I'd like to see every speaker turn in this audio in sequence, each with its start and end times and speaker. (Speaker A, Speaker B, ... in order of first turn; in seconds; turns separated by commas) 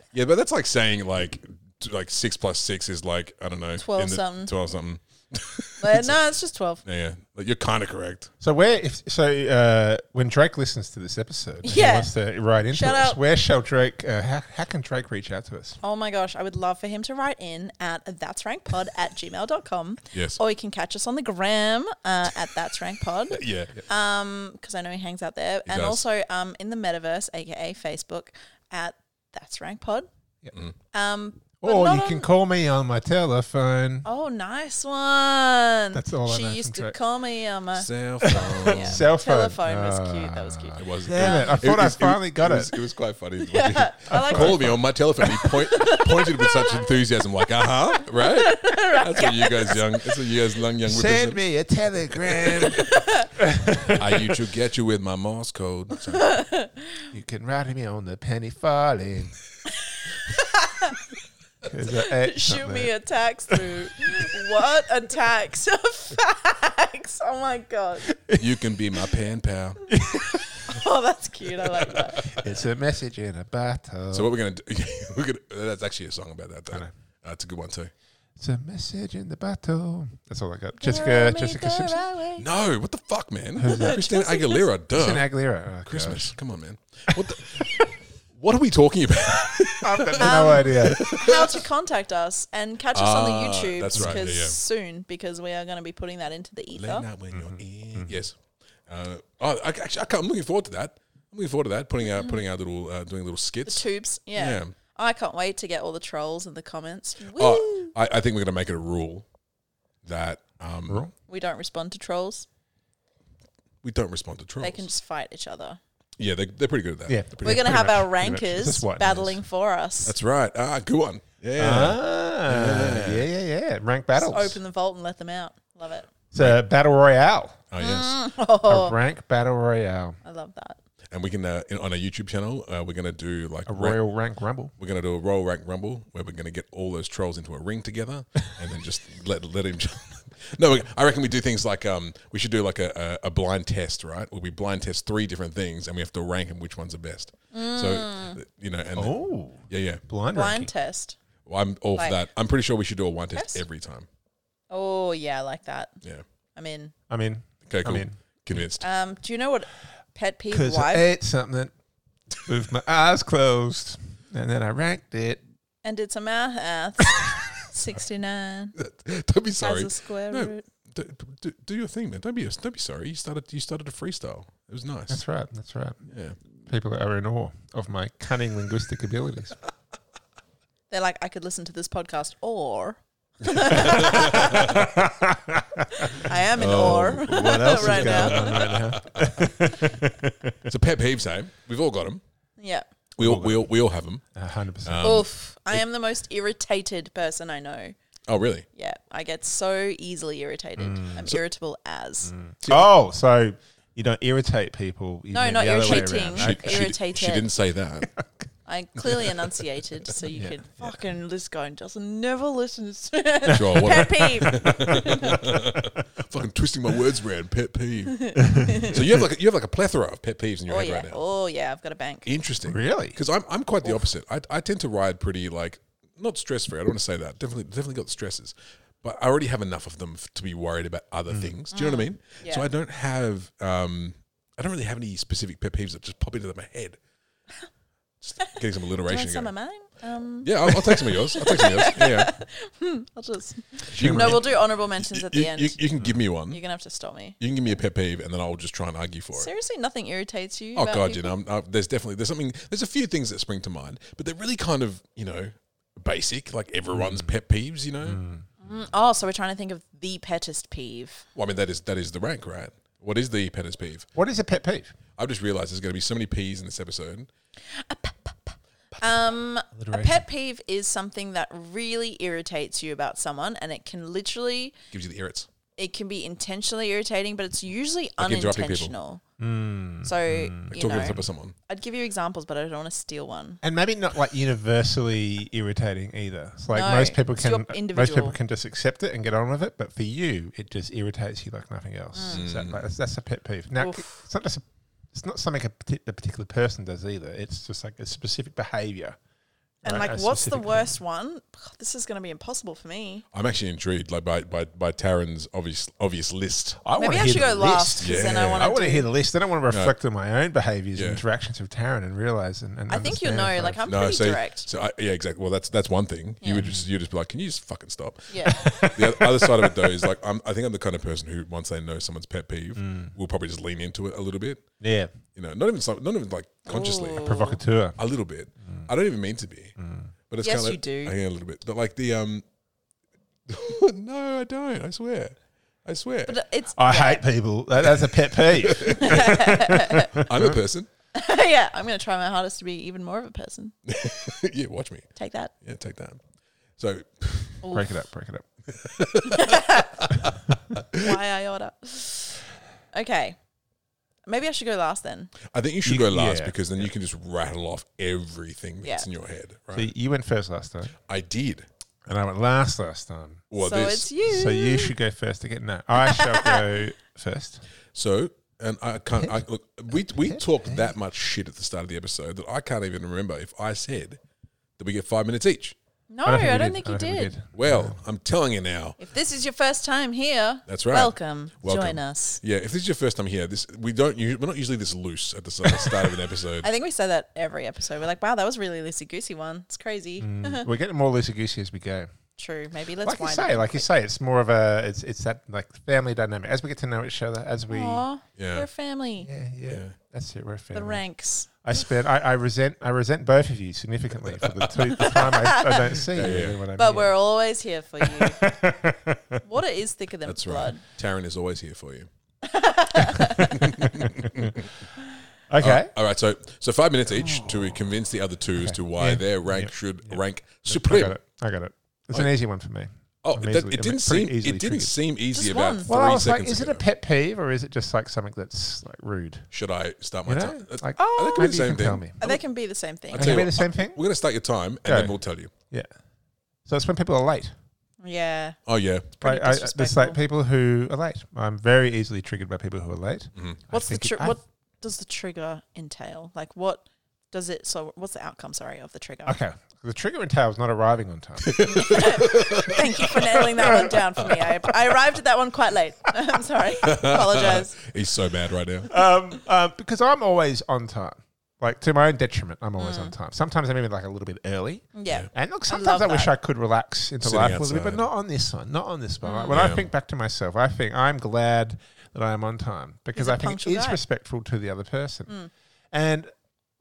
Speaker A: 0.1-6.1, Speaker B: 3.8-4.5, Speaker B: 5.8-6.8, Speaker A: 6.8-8.3, Speaker C: 8.4-15.8, Speaker B: 11.6-12.1, Speaker B: 12.7-13.2, Speaker B: 15.8-30.1, Speaker A: 20.1-20.4, Speaker A: 23.3-23.8, Speaker A: 25.6-26.0, Speaker B: 30.9-32.3, Speaker C: 31.6-34.1, Speaker B: 34.0-41.6, Speaker C: 35.9-37.0, Speaker A: 37.7-39.1, Speaker C: 38.2-42.7, Speaker A: 40.8-51.4, Speaker B: 43.4-46.9, Speaker C: 44.1-44.7, Speaker B: 48.1-50.3, Speaker C: 50.8-54.0, Speaker A: 52.3-52.8, Speaker B: 52.5-53.3, Speaker A: 53.9-56.4, Speaker B: 56.1-57.0, Speaker C: 57.1-59.4, Speaker B: 59.8-61.0, Speaker C: 61.6-62.9, Speaker B: 61.9-68.1, Speaker C: 68.1-68.5, Speaker A: 68.4-69.8, Speaker C: 69.9-70.8, Speaker B: 70.6-72.4, Speaker C: 72.1-74.3, Speaker A: 74.1-77.9, Speaker C: 78.4-82.0, Speaker B: 80.8-82.4, Speaker A: 82.4-85.3, Speaker C: 83.5-84.1, Speaker B: 83.7-84.6, Speaker C: 84.9-86.3, Speaker A: 85.8-91.6, Speaker C: 89.8-91.1, Speaker B: 90.2-97.1, Speaker A: 92.9-94.6, Speaker C: 93.9-94.2, Speaker A: 96.8-104.7, Speaker C: 97.3-98.1, Speaker B: 102.1-102.4, Speaker B: 103.7-107.9, Speaker A: 107.3-109.2, Speaker A: 110.0-111.1, Speaker B: 111.3-112.5, Speaker A: 113.8-114.9, Speaker B: 114.6-115.8, Speaker A: 116.2-117.2, Speaker C: 117.1-119.4, Speaker B: 117.4-120.1, Speaker A: 120.0-123.3, Speaker C: 121.6-124.6, Speaker B: 124.2-126.1, Speaker C: 126.3-127.6, Speaker A: 127.7-128.2, Speaker B: 127.8-128.9, Speaker C: 128.7-130.2, Speaker B: 130.2-130.8, Speaker A: 131.1-134.0, Speaker C: 133.7-134.7, Speaker A: 134.8-149.2, Speaker B: 147.5-148.4, Speaker C: 149.0-150.7, Speaker A: 149.7-150.0, Speaker B: 150.3-151.2, Speaker A: 151.4-154.1, Speaker B: 153.3-153.6, Speaker B: 154.7-155.9, Speaker B: 156.6-156.9, Speaker C: 157.1-158.1, Speaker A: 157.7-158.9, Speaker B: 158.8-161.1, Speaker C: 160.5-161.7, Speaker C: 162.4-165.4, Speaker B: 165.8-168.7, Speaker A: 168.7-175.2, Speaker B: 169.6-170.6, Speaker C: 175.1-176.0, Speaker A: 176.1-176.4, Speaker C: 176.7-179.6, Speaker B: 180.9-184.8, Speaker A: 183.6-184.8, Speaker C: 183.9-190.7, Speaker B: 185.9-188.9, Speaker A: 186.5-189.9, Speaker A: 190.7-192.2, Speaker B: 192.6-192.8, Speaker A: 193.2-194.2, Speaker C: 193.2-193.7, Speaker C: 194.3-195.1, Speaker A: 194.8-195.8, Speaker B: 195.0-197.9, Speaker A: 198.3-198.7, Speaker B: 198.8-202.3, Speaker C: 200.8-201.3, Speaker C: 202.2-206.9, Speaker B: 205.3-207.5, Speaker A: 205.8-208.1, Speaker B: 208.7-215.4, Speaker C: 210.3-211.0, Speaker A: 213.5-221.2, Speaker C: 213.7-215.8, Speaker B: 218.1-219.0, Speaker C: 218.4-219.0, Speaker B: 220.7-222.3, Speaker A: 222.2-237.0, Speaker C: 222.7-223.2, Speaker C: 231.3-231.6, Speaker B: 231.7-232.7, Speaker A: 238.2-239.5, Speaker B: 239.1-245.8, Speaker A: 240.4-242.3, Speaker C: 243.9-244.5, Speaker A: 243.9-246.6, Speaker B: 246.5-247.4, Speaker A: 247.4-249.5, Speaker B: 249.3-251.3, Speaker A: 250.7-258.2, Speaker C: 256.9-257.3, Speaker C: 258.1-258.4, Speaker B: 258.6-261.2, Speaker A: 261.3-264.1, Speaker C: 264.1-264.9, Speaker A: 265.2-267.3, Speaker B: 267.7-274.7, Speaker C: 269.7-270.2, Speaker A: 274.9-275.5, Speaker B: 275.8-279.2, Speaker A: 278.2-278.9, Speaker C: 279.4-281.2, Speaker B: 280.0-283.6, Speaker A: 280.7-281.5, Speaker C: 283.6-299.2, Speaker B: 286.7-288.4, Speaker B: 292.1-292.4, Speaker A: 292.3-292.8, Speaker B: 293.8-294.2, Speaker C: 299.8-300.9, Speaker B: 299.8-303.2, Speaker A: 303.3-306.8, Speaker C: 306.8-313.8, Speaker B: 307.0-309.1, Speaker A: 308.0-308.7, Speaker A: 309.7-309.9, Speaker A: 310.9-311.2, Speaker B: 312.9-314.7, Speaker A: 313.9-324.6, Speaker B: 316.4-316.7, Speaker C: 316.6-316.9, Speaker B: 318.3-319.0, Speaker C: 318.5-319.9, Speaker C: 322.8-323.1, Speaker C: 324.8-325.1, Speaker A: 325.3-327.3, Speaker B: 326.6-327.6, Speaker C: 327.2-328.0, Speaker A: 328.0-329.8, Speaker C: 329.8-330.1, Speaker A: 330.3-332.4, Speaker B: 330.4-331.1, Speaker A: 333.5-336.4, Speaker B: 336.3-337.2, Speaker C: 336.8-340.6, Speaker A: 338.3-340.9, Speaker B: 338.9-340.2, Speaker B: 341.1-343.7, Speaker A: 343.9-345.1, Speaker B: 345.1-345.5, Speaker A: 345.6-346.2, Speaker A: 346.8-347.6, Speaker B: 347.6-347.9, Speaker C: 347.7-348.4, Speaker A: 348.7-351.1, Speaker B: 349.3-350.0, Speaker B: 350.9-353.4, Speaker B: 354.3-355.3, Speaker A: 355.4-359.9, Speaker C: 355.9-356.9, Speaker C: 359.7-360.9, Speaker A: 361.1-361.7, Speaker C: 362.1-363.4, Speaker A: 363.5-364.1, Speaker B: 363.6-364.9, Speaker C: 364.2-367.6, Speaker B: 366.0-366.6, Speaker A: 367.9-374.2, Speaker C: 369.9-370.9, Speaker A: 374.8-375.8, Speaker B: 376.1-377.3, Speaker C: 376.2-378.0, Speaker A: 377.5-379.0, Speaker B: 379.0-382.4, Speaker A: 380.7-386.7, Speaker B: 386.6-390.7, Speaker C: 390.2-392.1, Speaker B: 392.4-393.8, Speaker C: 393.0-398.0, Speaker B: 397.7-399.3, Speaker A: 398.4-398.7, Speaker C: 399.2-401.0, Speaker A: 399.6-399.9, Speaker B: 400.7-401.5, Speaker C: 401.6-407.1, Speaker A: 404.4-405.1, Speaker B: 405.0-406.0, Speaker A: 406.1-406.6, Speaker B: 406.7-408.5, Speaker C: 408.0-409.4, Speaker B: 409.4-410.8, Speaker A: 410.2-412.1, Speaker B: 412.4-413.8, Speaker C: 413.1-414.6, Speaker A: 413.4-414.7, Speaker C: 415.5-415.9, Speaker A: 415.6-421.1, Speaker C: 417.1-417.9, Speaker C: 418.6-424.9, Speaker A: 423.2-426.8, Speaker B: 425.3-425.9, Speaker C: 425.9-429.5, Speaker A: 429.5-432.4, Speaker C: 430.2-432.3, Speaker B: 431.0-431.6, Speaker B: 432.2-433.5, Speaker A: 433.1-435.5, Speaker C: 433.1-434.0, Speaker C: 434.9-435.1, Speaker C: 436.6-437.5, Speaker B: 438.0-438.6, Speaker A: 438.6-439.1, Speaker B: 439.2-440.2, Speaker C: 439.2-444.4, Speaker B: 443.7-449.4, Speaker C: 449.2-452.3, Speaker A: 451.4-454.3, Speaker B: 451.7-457.8, Speaker C: 453.5-454.5, Speaker A: 456.8-458.9, Speaker C: 458.9-475.3, Speaker B: 462.8-463.1, Speaker B: 464.9-466.3, Speaker A: 467.2-468.1, Speaker B: 469.2-469.6, Speaker A: 469.5-469.9, Speaker B: 473.1-474.0, Speaker C: 475.9-476.3